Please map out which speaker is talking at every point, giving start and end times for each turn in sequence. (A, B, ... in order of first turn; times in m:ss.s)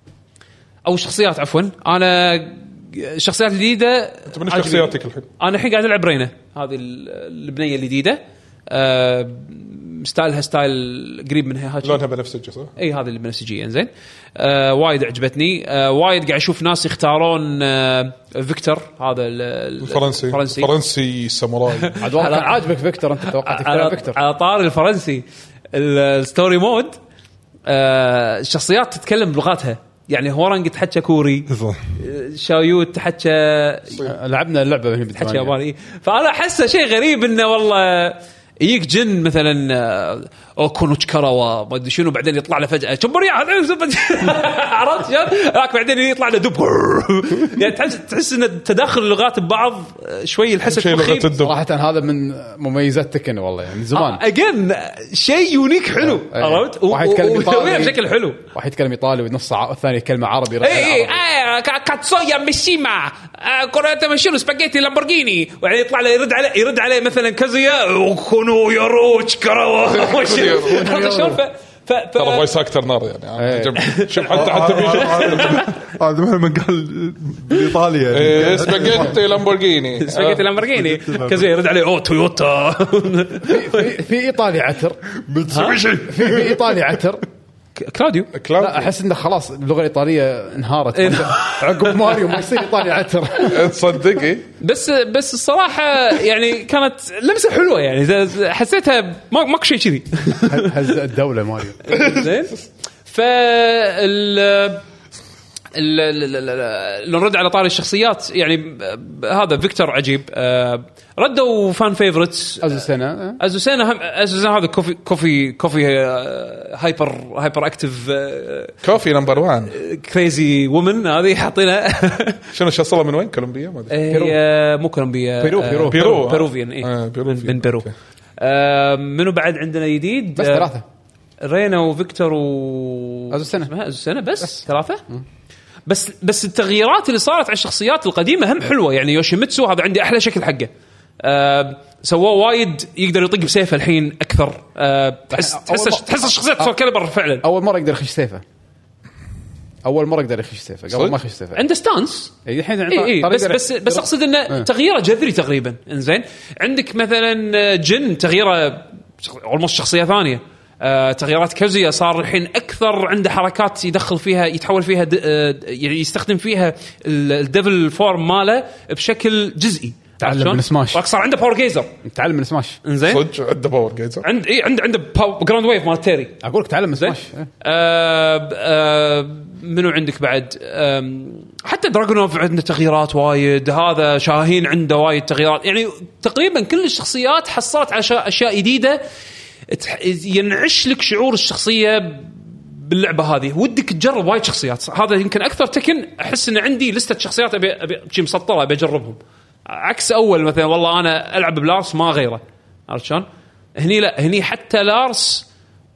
0:00.9-0:12.0 A
0:04.3-0:05.3 B
0:11.8-0:12.7 B
0:12.8-0:20.7 A
0:19.8-0:22.0 B
0:21.8-0:22.7 A
0:22.0-0:24.2 C
0:23.2-0:27.0 A
0:27.7-0:34.1 A
0:31.5-0:31.8 D
0:34.0-0:35.5 C
0:35.2-0:51.4 A
0:50.7-0:51.6 B
0:51.4-0:54.2 C
0:53.9-0:58.5 A
0:56.1-0:58.0 C
0:58.5-1:01.2 C
1:00.6-1:12.5 A
1:10.0-1:11.3 B
1:12.2-1:15.6 B
1:13.4-1:13.8 C
1:13.8-1:15.7 A
1:14.3-1:19.2 D
1:18.1-1:20.4 B
1:20.0-1:24.0 A
1:20.7-1:21.4 D
1:23.4-1:25.0 C
1:25.2-1:26.7 D
1:25.5-1:25.8 A
1:26.1-1:27.2 C
1:27.8-1:28.3 A
1:28.3-1:28.9 B
1:28.6-1:33.7 C
1:30.9-1:32.4 A
1:33.4-1:34.5 B
1:34.6-1:40.9 A
1:40.4-1:42.1 C
1:41.8-1:44.8 A
1:45.7-1:52.9 A
1:52.6-1:53.4 C
1:53.4-1:58.8 A
1:58.8-1:59.8 B
1:59.7-2:02.4 A
2:02.5-2:04.0 B
2:03.9-2:07.9 A
2:04.1-2:04.4 C
2:05.4-2:06.1 C
2:05.9-2:07.9 B
2:08.4-2:10.7 A
2:10.4-2:10.8 C
2:11.4-2:15.0 A
2:13.3-2:13.7 C
2:15.9-2:27.4 A
2:25.3-2:26.7 C
2:27.4-2:28.4 C
2:29.8-2:31.6 C
2:30.9-2:31.2 B
2:31.5-2:32.4 A
2:32.4-2:34.7 C
2:32.9-2:51.9 A
2:50.2-2:51.0 C
2:52.0-2:52.8 C
2:52.8-2:53.2 A
2:53.1-2:54.2 B
2:54.2-2:56.4 A
2:56.4-2:57.5 C
2:57.0-3:09.0 A
3:09.7-3:23.3 A
3:23.8-3:25.5 A